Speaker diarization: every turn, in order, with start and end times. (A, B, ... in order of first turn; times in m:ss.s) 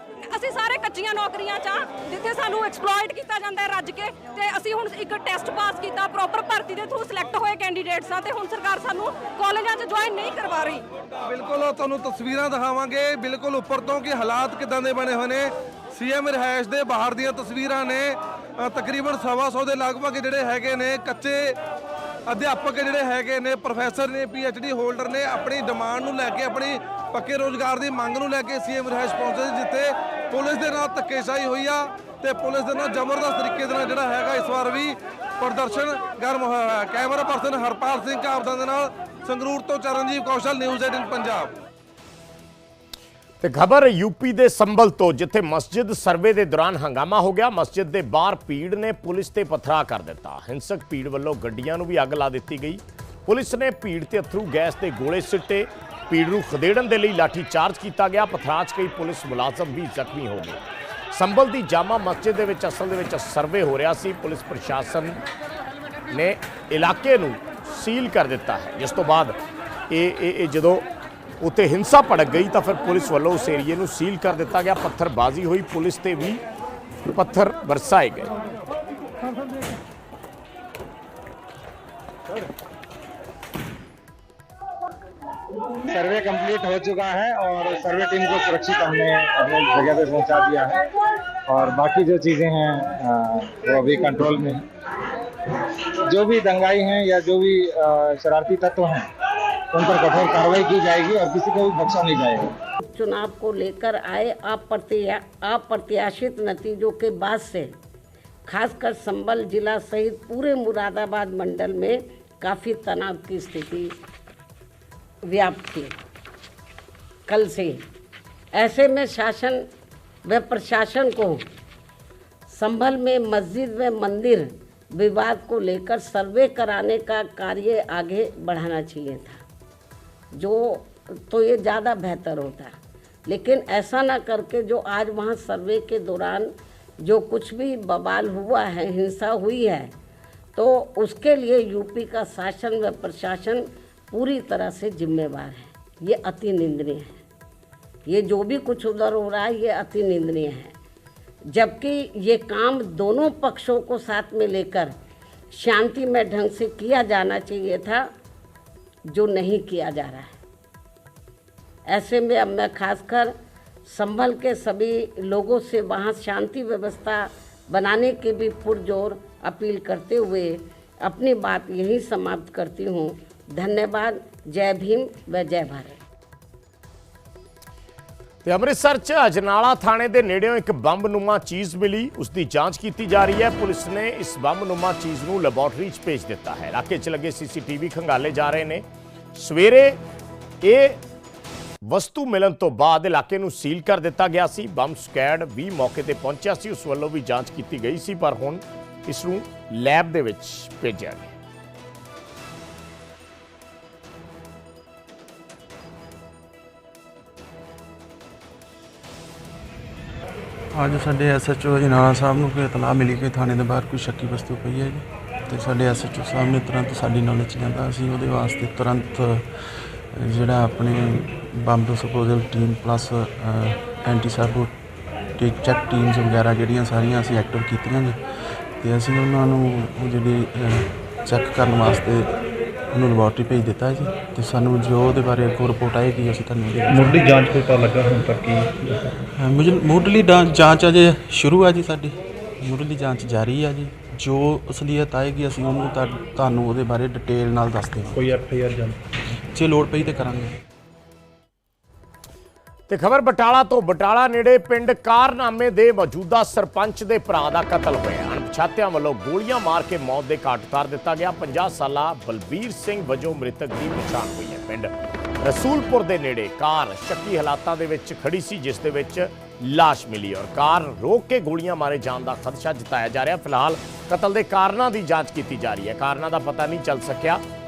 0:00.2-0:10.9 A
0:11.3-0:21.6 B
0:22.3-0:41.6 B
0:43.4-1:05.2 C
1:06.1-1:09.4 C
1:09.9-1:10.9 C
1:11.4-1:16.4 C
1:17.1-1:18.4 C
1:25.8-1:30.9 D
1:31.5-1:34.6 D
1:36.1-1:39.1 D
1:39.7-1:42.5 D
1:42.8-1:47.7 E
1:48.5-1:53.9 E
1:55.3-1:56.0 E
1:57.3-1:57.8 E
1:58.5-1:59.6 E
2:00.2-2:01.4 E
2:02.5-2:09.4 E
2:10.3-2:12.7 E
2:13.3-2:19.9 E
2:20.6-2:27.2 E
2:28.1-2:30.7 E
2:31.5-2:35.0 E
2:35.5-2:38.1 E
2:39.1-2:40.3 E
2:41.9-2:43.3 E
2:43.9-2:56.0 E
2:58.4-3:10.0 C
3:10.6-3:11.0 C
3:11.9-3:21.3 C
3:30.7-3:44.8 F
3:45.4-3:57.4 F
3:56.9-3:59.2 G
3:59.3-4:08.3 F
4:08.1-4:09.0 G
4:09.5-4:10.6 F
4:12.9-4:37.4 C